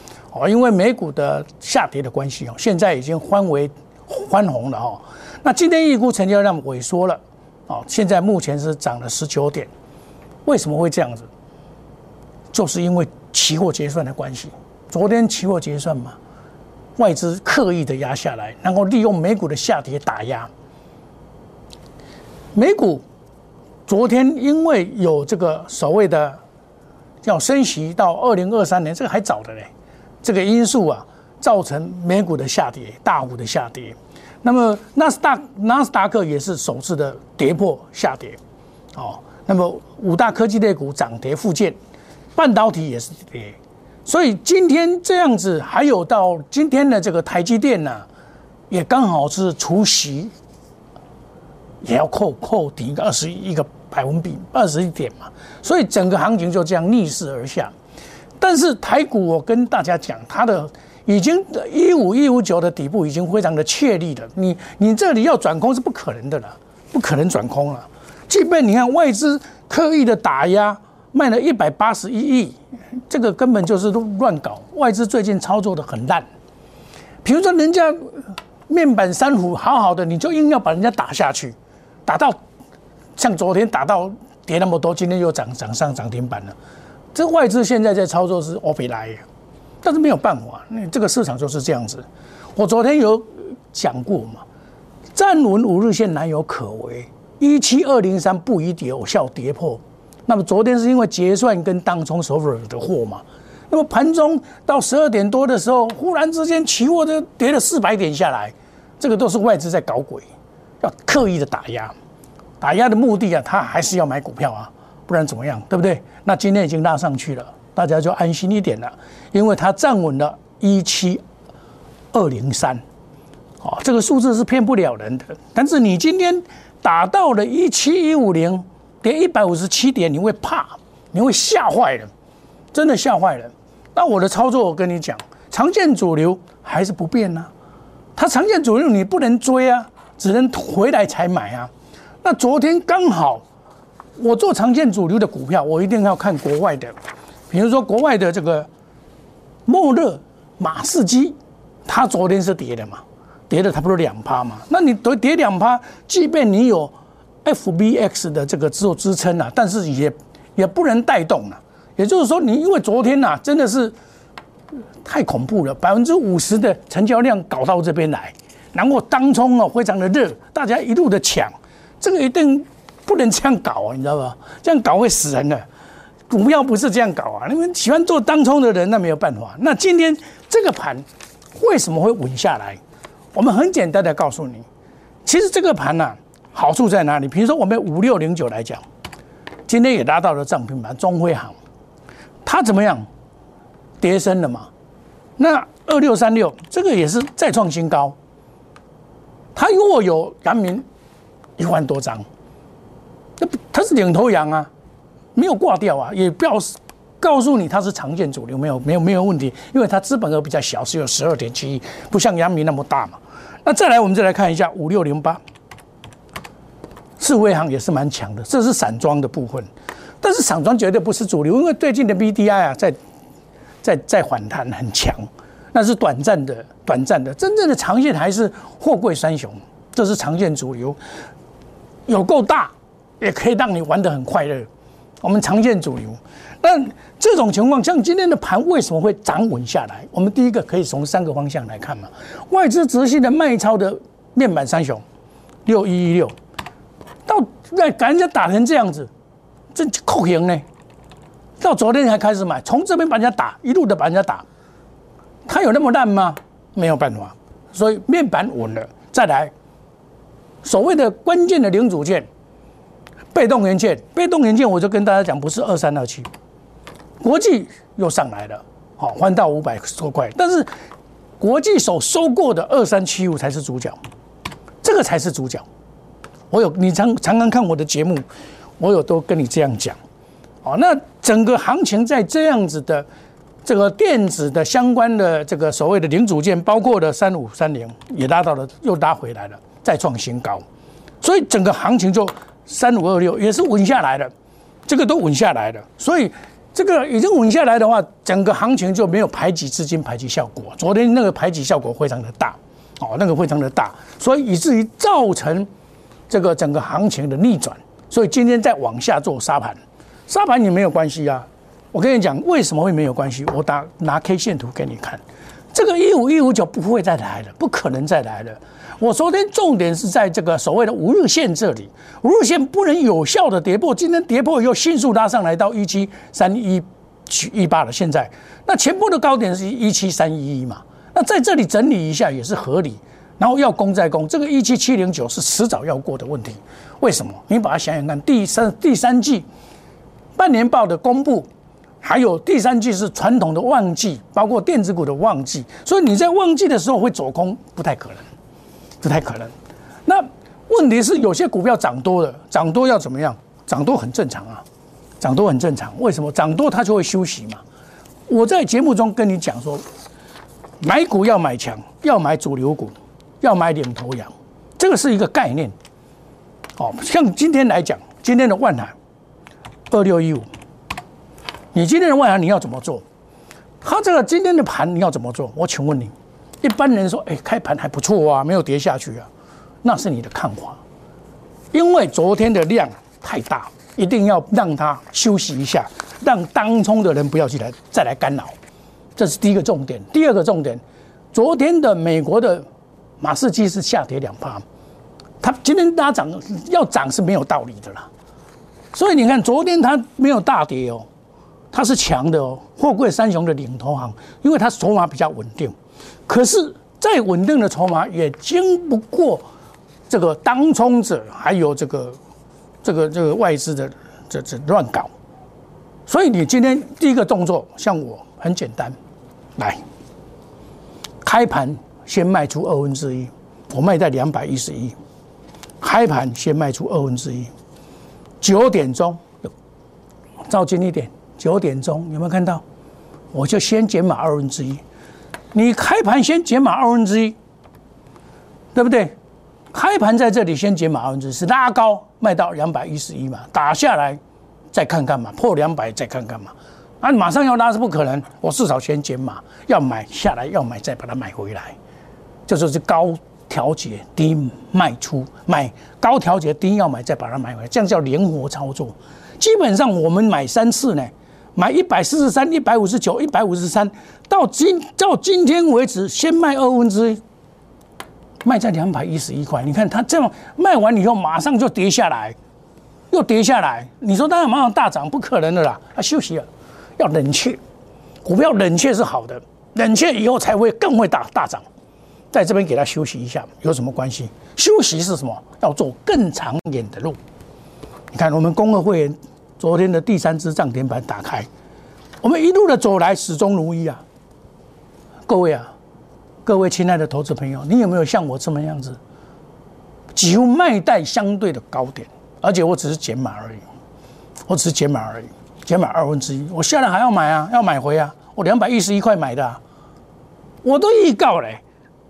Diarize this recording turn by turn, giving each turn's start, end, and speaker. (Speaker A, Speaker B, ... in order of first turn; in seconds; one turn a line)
Speaker A: 0.3-9.7
Speaker A: 10.4-11.3
Speaker A: 12.5-16.2
Speaker A: 17.0-20.5
Speaker A: 22.6-23.0
Speaker A: 23.9-26.4
Speaker A: 27.2-29.7
Speaker A: 30.2-38.4
Speaker A: 38.9-41.8
Speaker A: 42.4-48.1
Speaker A: 48.7-50.3
Speaker A: 51.8-57.7
Speaker A: 58.4-76.3
Speaker A: 77.2-81.5
Speaker A: 82.1-82.4
Speaker A: 83.2-86.5
Speaker A: 87.1-89.2
Speaker A: 89.8-94.4
Speaker A: 95.1-110.3
Speaker A: 110.8-112.0
Speaker A: 112.6-121.2
Speaker A: 122.1-122.8
Speaker A: 123.6-132.1
Speaker A: 132.7-137.5
Speaker A: 138.2-141.7
Speaker A: 142.2-143.4
Speaker A: 144.2-146.9
Speaker A: 147.5-148.7
Speaker A: 149.7-163.9
Speaker A: 165.0-175.6
Speaker A: 176.3-182.8
Speaker A: 183.3-184.7
Speaker A: 185.2-188.8
Speaker A: 189.7-191.6
Speaker A: 192.4-193.1
Speaker A: 194.0-194.7
Speaker A: 195.4-198.2
Speaker A: 199.6-200.8
Speaker A: 201.6-202.2
Speaker A: 203.4-204.7
Speaker A: 205.3-215.4
Speaker A: 217.2-219.7
Speaker A: 220.2-223.0
Speaker A: 223.8-231.0
Speaker A: 232.1-234.7
Speaker A: 235.2-245.0
Speaker A: 245.7-246.3
Speaker A: 247.3-249.1
Speaker A: 249.7-250.7
Speaker A: 251.6-254.4
Speaker A: 255.5-259.5
Speaker A: 260.6-262.3
Speaker A: 263.3-266.3
Speaker A: 267.2-270.7
Speaker A: 271.4-274.0
Speaker A: 274.8-275.6
Speaker A: 276.5-278.2
Speaker A: 278.8-280.0
Speaker A: 280.6-283.1
Speaker A: 283.6-290.6
Speaker A: 291.2-294.3
Speaker A: 294.9-305.7
Speaker A: 306.3-315.2
Speaker A: 315.7-339.5
Speaker A: 340.4-341.5
Speaker A: 342.0-348.2
Speaker A: 349.0-349.5
Speaker A: 350.1-354.6
Speaker A: 355.2-357.6
Speaker A: 358.3-359.9
Speaker A: 360.8-365.7
Speaker A: 366.8-368.9
Speaker A: 369.9-370.5
Speaker A: 371.7-373.0
Speaker A: 373.8-379.3
Speaker A: 379.8-380.8
Speaker A: 381.7-388.6
Speaker A: 389.2-390.8
Speaker A: 391.3-392.7
Speaker A: 393.2-394.6
Speaker A: 395.4-398.1
Speaker A: 398.9-401.1
Speaker A: 401.7-405.7
Speaker A: 406.3-409.4
Speaker A: 410.1-412.2
Speaker A: 412.8-415.1
Speaker A: 416.1-419.0
Speaker A: 419.6-419.8
Speaker A: 421.2-425.0
Speaker A: 425.8-427.5
Speaker A: 428.4-429.5
Speaker A: 430.5-432.6
Speaker A: 433.3-434.8
Speaker A: 435.5-437.4
Speaker A: 438.7-439.1
Speaker A: 439.7-444.2
Speaker A: 444.7-451.8
Speaker A: 452.5-467.2
Speaker A: 468.4-472.4
Speaker A: 473.1-476.5
Speaker A: 477.0-477.6
Speaker A: 478.2-481.6
Speaker A: 482.3-487.2
Speaker A: 488.1-491.5
Speaker A: 492.2-494.0
Speaker A: 495.3-495.7
Speaker A: 496.4-499.0
Speaker A: 500.1-503.6
Speaker A: 504.5-509.6
Speaker A: 510.6-511.6